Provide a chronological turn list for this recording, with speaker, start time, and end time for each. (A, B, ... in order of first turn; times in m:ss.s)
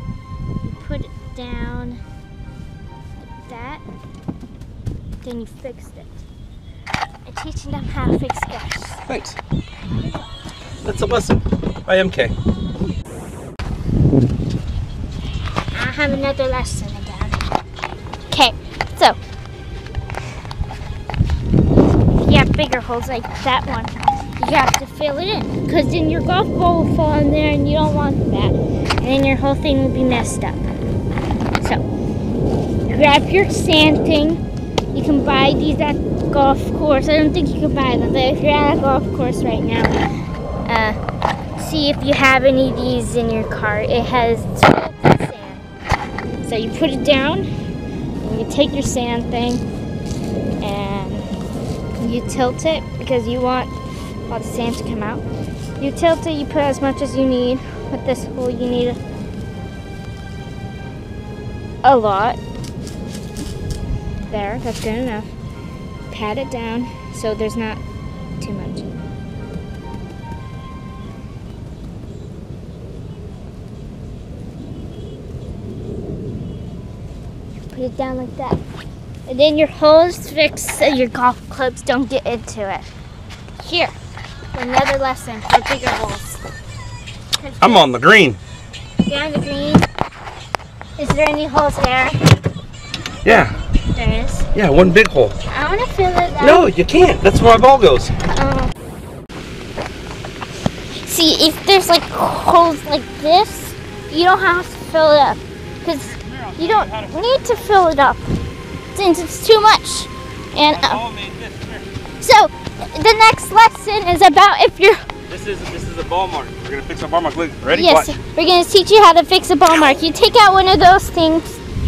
0:00.6-0:02.0 A
0:03.5-0:03.8 A
0:05.2-0:06.2 A
0:07.3-0:09.0 A
0:09.1-0:09.4 B
0:10.8-0:12.3 B
0:15.7-0:17.4 A
0:18.3-0:19.2 A
0:22.1-0:30.7 A
0:32.9-0:34.4 A
0:34.9-0:39.9 A
0:40.7-0:41.0 A
0:41.6-0:45.7 A
0:46.4-0:47.5 A
0:48.2-0:49.6 A
0:50.6-0:51.3 A
0:52.0-0:53.7 A
0:54.3-0:55.2 A
0:55.8-0:59.0 A
1:01.8-1:02.4 A
1:04.3-1:05.3 A
1:06.1-1:07.8 A
1:08.4-1:08.9 A
1:17.7-1:18.6 A
1:19.3-1:22.9 A
1:23.6-1:24.0 A
1:24.5-1:26.4 A
1:27.4-1:27.9 A
1:27.6-1:28.4 B
1:29.1-1:29.9 A
1:31.0-1:32.2 A
1:33.2-1:33.6 B
1:33.9-1:34.5 A
1:34.5-1:35.4 B
1:35.5-1:36.7 A
1:36.4-1:38.1 B
1:38.3-1:38.7 A
1:41.0-1:48.3 A
1:46.0-1:47.9 B
1:48.9-1:51.0 A
1:50.7-1:51.9 B
1:52.2-1:55.0 A
1:55.3-1:58.1 B
1:57.7-2:01.6 A